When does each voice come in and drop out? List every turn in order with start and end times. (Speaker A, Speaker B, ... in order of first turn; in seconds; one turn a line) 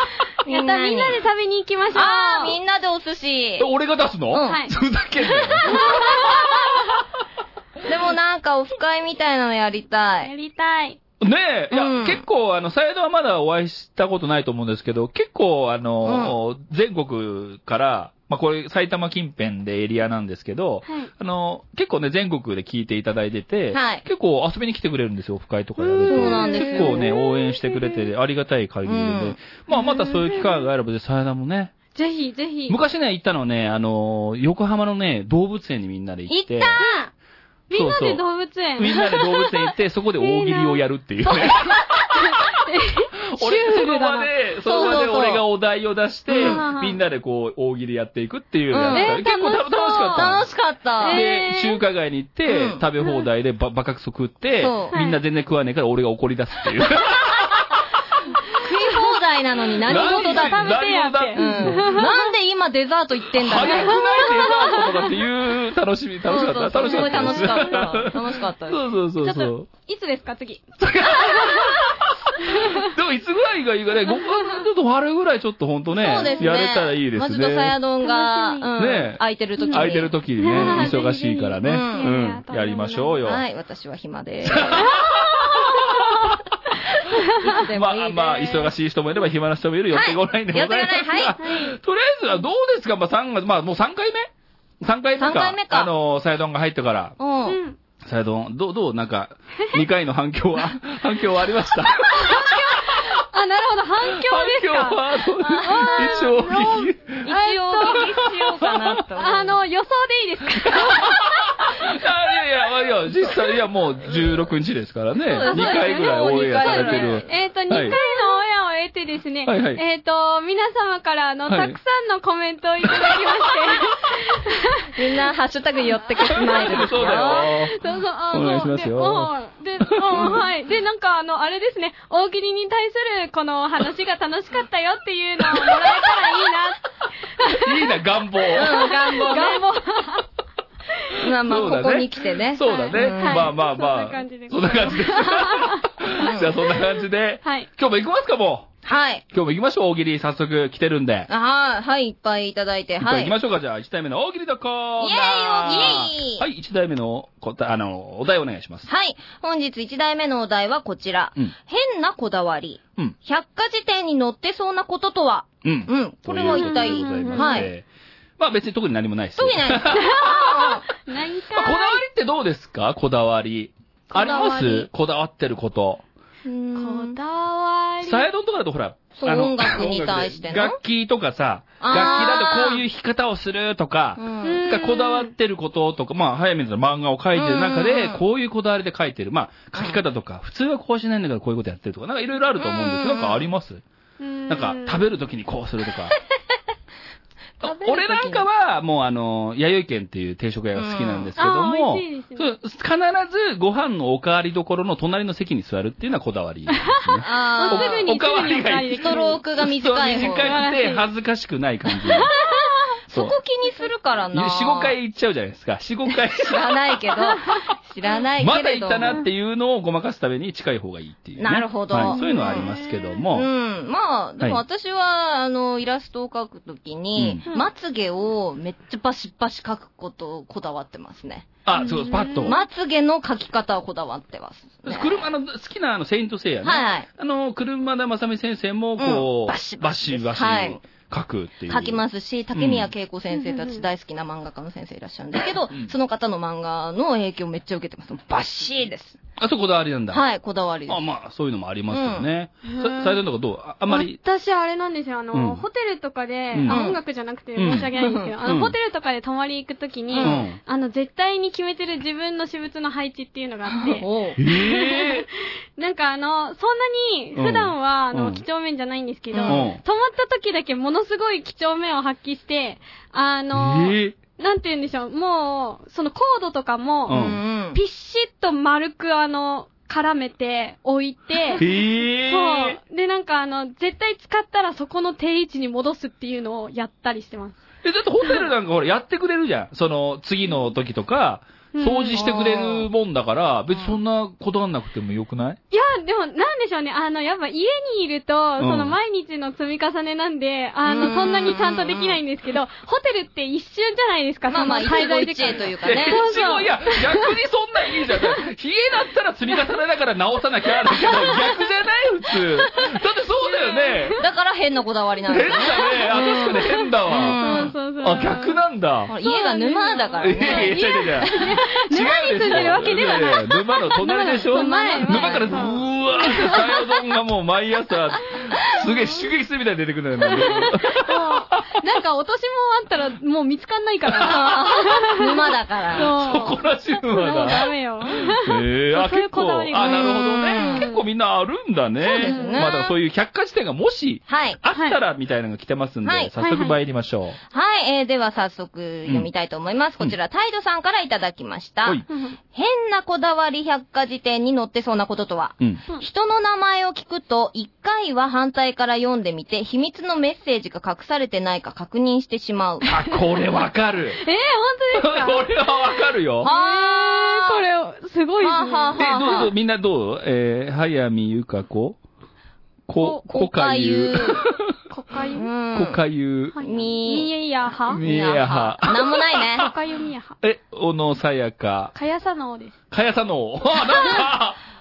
Speaker A: 0.4-1.2
Speaker B: 0.5-2.5
Speaker A: 1.9-3.7
Speaker C: 3.6-6.6
Speaker A: 4.3-4.6
Speaker B: 4.5-4.7
Speaker B: 5.7-6.3
Speaker A: 7.8-10.3
Speaker B: 10.2-11.0
Speaker C: 11.2-31.7
Speaker A: 11.7-12.2
Speaker A: 16.0-16.3
Speaker A: 23.7-24.0
Speaker B: 25.8-27.9
Speaker A: 26.0-27.1
Speaker A: 28.8-29.4
Speaker B: 29.7-30.6
Speaker B: 31.9-32.8
Speaker C: 32.7-36.8
Speaker A: 36.3-37.0
Speaker B: 36.8-37.0
Speaker B: 37.7-39.0
Speaker C: 37.7-38.2
Speaker C: 38.8-42.4
Speaker B: 40.2-44.3
Speaker C: 43.3-50.5
Speaker A: 44.6-45.4
Speaker A: 46.3-46.6
Speaker B: 46.4-47.0
Speaker A: 48.7-49.2
Speaker B: 48.9-50.4
Speaker A: 50.1-51.2
Speaker B: 51.0-51.8
Speaker C: 51.0-58.0
Speaker A: 52.5-52.8
Speaker A: 54.5-54.9
Speaker B: 54.9-55.2
Speaker A: 58.6-60.8
Speaker C: 59.8-62.0
Speaker B: 59.9-62.3
Speaker A: 61.3-64.5
Speaker C: 63.3-69.7
Speaker B: 64.2-64.8
Speaker A: 66.2-68.8
Speaker B: 66.8-68.1
Speaker B: 69.2-71.9
Speaker C: 70.8-77.8
Speaker B: 72.4-72.9
Speaker A: 75.9-80.9
Speaker B: 76.2-76.5
Speaker B: 78.0-78.7
Speaker C: 78.8-83.4
Speaker B: 79.6-83.2
Speaker A: 81.6-82.1
Speaker A: 83.2-85.0
Speaker C: 84.4-86.3
Speaker B: 85.8-86.3
Speaker A: 87.4-88.7
Speaker C: 87.7-94.3
Speaker A: 89.9-91.4
Speaker B: 91.4-91.8
Speaker C: 94.8-97.2
Speaker A: 95.2-95.9
Speaker A: 97.2-97.6
Speaker B: 97.5-97.8
Speaker C: 98.0-103.1
Speaker B: 102.2-108.1
Speaker C: 104.0-107.3
Speaker A: 105.4-106.3
Speaker A: 107.2-109.6
Speaker C: 107.8-109.0
Speaker B: 109.2-111.2
Speaker C: 110.6-118.0
Speaker A: 115.2-118.1
Speaker B: 115.4-124.9
Speaker C: 119.4-119.8
Speaker C: 121.5-121.8
Speaker C: 122.8-123.4
Speaker A: 125.0-127.5
Speaker C: 126.2-127.8
Speaker B: 126.3-136.8
Speaker C: 128.3-130.4
Speaker C: 135.5-136.1
Speaker B: 137.4-137.7
Speaker C: 137.6-139.4
Speaker A: 138.5-139.6
Speaker B: 138.7-140.2
Speaker A: 141.2-143.5
Speaker C: 141.4-148.7
Speaker B: 142.7-145.8
Speaker A: 146.2-146.7
Speaker A: 148.8-149.2
Speaker C: 149.3-151.3
Speaker A: 151.3-153.3
Speaker C: 153.0-158.9
Speaker A: 155.0-156.4
Speaker A: 158.8-167.7
Speaker C: 165.6-167.8
Speaker B: 166.4-167.7
Speaker C: 168.4-170.8
Speaker A: 169.3-170.8
Speaker B: 170.0-170.3
Speaker B: 171.0-172.0
Speaker C: 171.5-176.0
Speaker A: 174.1-174.9
Speaker A: 176.4-177.2
Speaker B: 176.8-178.3
Speaker C: 178.0-193.8
Speaker A: 179.2-180.8
Speaker A: 181.8-182.8
Speaker A: 184.2-184.7
Speaker B: 184.4-185.3
Speaker A: 187.3-188.2
Speaker A: 189.7-190.0
Speaker A: 192.6-193.4
Speaker B: 194.2-195.1
Speaker C: 194.5-196.2
Speaker C: 197.6-209.1
Speaker A: 197.6-198.4
Speaker A: 200.8-201.3
Speaker B: 201.4-202.4
Speaker A: 207.2-208.0
Speaker B: 207.3-209.4
Speaker A: 208.9-210.7
Speaker C: 209.6-212.3
Speaker B: 210.4-211.1
Speaker B: 212.1-212.9
Speaker A: 213.1-214.9
Speaker C: 214.3-217.1
Speaker A: 216.3-219.1
Speaker C: 218.4-223.5
Speaker A: 221.4-222.7
Speaker B: 222.1-223.2
Speaker A: 223.3-231.5
Speaker C: 227.2-227.4
Speaker C: 231.6-232.6
Speaker B: 231.8-232.5
Speaker A: 232.4-235.3
Speaker C: 234.8-242.0
Speaker A: 236.6-237.1
Speaker A: 239.0-240.8
Speaker A: 241.7-249.2
Speaker C: 242.5-242.9
Speaker B: 243.3-243.8
Speaker C: 249.4-250.2
Speaker A: 250.1-251.0
Speaker C: 250.9-254.2
Speaker A: 251.9-252.3
Speaker B: 252.7-253.2
Speaker B: 253.9-281.6
Speaker C: 255.3-255.6
Speaker C: 256.5-256.8
Speaker A: 256.7-257.0
Speaker C: 257.6-257.9
Speaker A: 258.0-258.3
Speaker C: 258.4-258.7
Speaker A: 260.1-260.4
Speaker C: 260.2-260.6
Speaker A: 263.8-264.4
Speaker C: 264.4-265.2
Speaker C: 267.3-268.4
Speaker A: 269.3-269.7
Speaker C: 269.5-269.8
Speaker C: 273.5-274.1
Speaker C: 277.1-277.4
Speaker A: 277.1-277.8
Speaker C: 281.6-282.8
Speaker B: 282.3-287.6
Speaker C: 287.8-295.6
Speaker B: 291.7-292.2
Speaker A: 292.1-292.9
Speaker B: 295.7-307.3
Speaker C: 298.6-298.9
Speaker A: 300.8-302.2
Speaker A: 304.5-306.2
Speaker C: 305.8-314.2
Speaker B: 312.9-314.2
Speaker A: 314.2-317.7
Speaker C: 315.3-319.1
Speaker B: 315.5-318.6
Speaker A: 319.1-321.5
Speaker B: 319.2-326.8
Speaker C: 320.2-331.6
Speaker A: 324.5-325.8
Speaker B: 330.2-335.4
Speaker C: 334.1-334.7
Speaker A: 334.1-336.1
Speaker B: 335.9-341.0
Speaker C: 335.9-347.4
Speaker A: 339.8-340.9
Speaker A: 342.0-342.9
Speaker B: 342.2-342.7
Speaker A: 344.3-344.6
Speaker A: 346.0-346.3
Speaker B: 346.4-346.8
Speaker A: 347.5-363.0
Speaker B: 352.1-352.4
Speaker C: 362.9-364.2
Speaker B: 364.2-365.5
Speaker C: 364.9-366.5
Speaker A: 366.4-367.6
Speaker B: 366.4-369.5
Speaker A: 368.4-369.5
Speaker C: 368.9-372.0
Speaker C: 372.9-374.7
Speaker B: 373.0-373.2
Speaker A: 373.3-374.4
Speaker B: 374.9-375.5
Speaker A: 375.3-376.0
Speaker C: 375.7-376.6
Speaker B: 376.5-378.0
Speaker A: 376.6-377.3
Speaker C: 377.9-379.7
Speaker A: 378.0-379.7
Speaker B: 379.6-380.4
Speaker C: 380.4-381.9
Speaker B: 381.9-382.7
Speaker C: 382.9-384.6